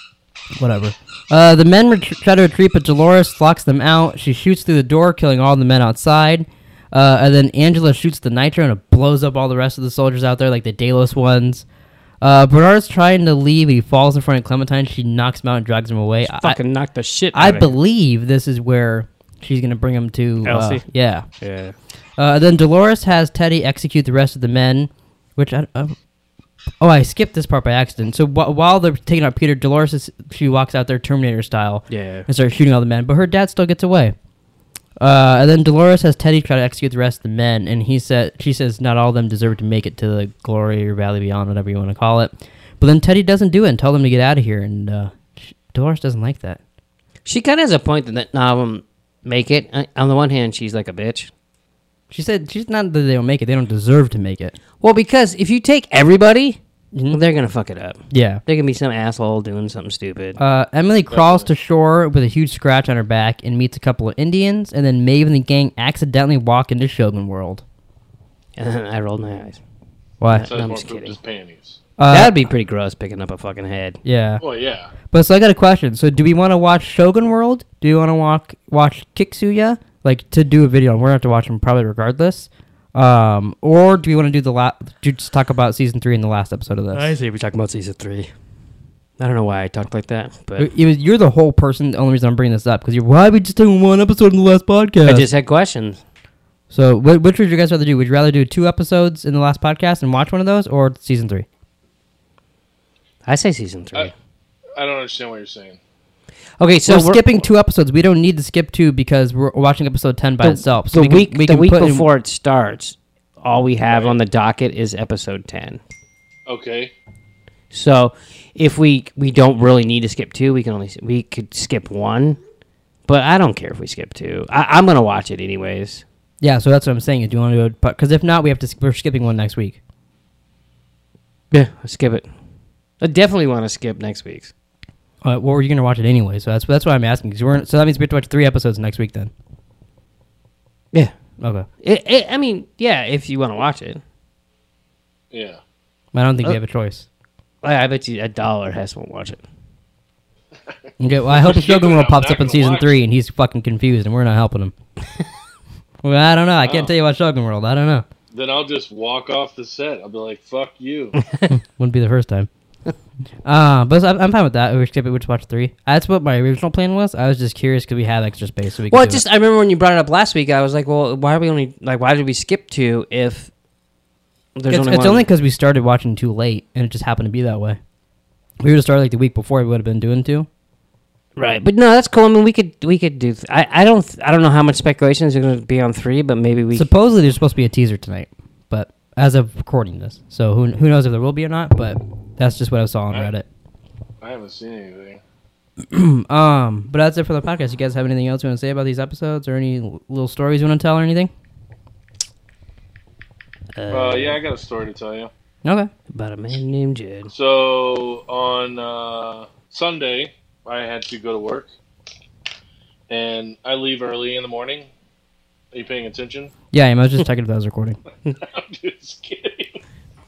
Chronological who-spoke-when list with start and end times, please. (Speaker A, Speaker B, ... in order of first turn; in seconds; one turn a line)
Speaker A: 0.5-11.6
Speaker A: 12.2-16.6
Speaker B: 16.3-17.7
Speaker A: 17.3-21.3
Speaker B: 20.4-20.8
Speaker B: 21.4-21.7
Speaker A: 22.2-25.9
Speaker A: 26.8-34.1
Speaker B: 31.9-32.3
Speaker A: 35.0-46.6
Speaker B: 47.2-51.3
Speaker A: 52.1-54.5
Speaker B: 54.8-56.6
Speaker A: 56.9-57.2
Speaker B: 57.1-60.4
Speaker A: 58.1-58.4
Speaker A: 60.4-67.6
Speaker C: 61.1-61.5
Speaker B: 68.6-69.6
Speaker A: 70.2-70.5
Speaker B: 70.3-71.2
Speaker C: 70.5-71.8
Speaker A: 72.0-72.4
Speaker B: 72.1-74.0
Speaker A: 74.0-74.4
Speaker C: 74.4-74.9
Speaker A: 75.1-87.1
Speaker B: 86.9-88.3
Speaker B: 89.2-90.7
Speaker A: 90.6-95.3
Speaker B: 95.0-96.0
Speaker A: 96.7-101.5
Speaker B: 103.3-104.1
Speaker C: 104.8-105.8
Speaker B: 106.6-107.2
Speaker A: 106.9-112.1
Speaker B: 110.4-115.8
Speaker C: 113.9-114.2
Speaker C: 116.5-116.9
Speaker B: 117.7-122.4
Speaker B: 123.1-126.0
Speaker A: 126.4-129.8
Speaker B: 131.5-132.3
Speaker B: 133.0-134.5
Speaker A: 135.2-139.3
Speaker A: 141.4-141.7
Speaker B: 141.8-144.0
Speaker C: 145.3-145.6
Speaker A: 146.1-147.1
Speaker B: 147.6-149.4
Speaker A: 151.0-154.7
Speaker C: 151.3-152.9
Speaker A: 156.0-158.1
Speaker C: 156.6-156.9
Speaker C: 158.3-161.2
Speaker B: 161.2-161.5
Speaker A: 161.5-162.5
Speaker A: 163.4-169.2
Speaker B: 168.9-173.5
Speaker B: 174.6-175.3
Speaker A: 174.7-177.8
Speaker A: 178.6-180.5
Speaker B: 181.4-186.9
Speaker A: 186.7-193.4
Speaker C: 194.2-195.2
Speaker A: 195.9-201.3
Speaker B: 203.8-204.4
Speaker C: 203.9-205.3
Speaker A: 205.6-205.9
Speaker B: 206.1-207.3
Speaker C: 207.3-211.7
Speaker C: 213.1-214.9
Speaker C: 215.7-216.5
Speaker A: 216.7-218.0
Speaker C: 218.4-219.8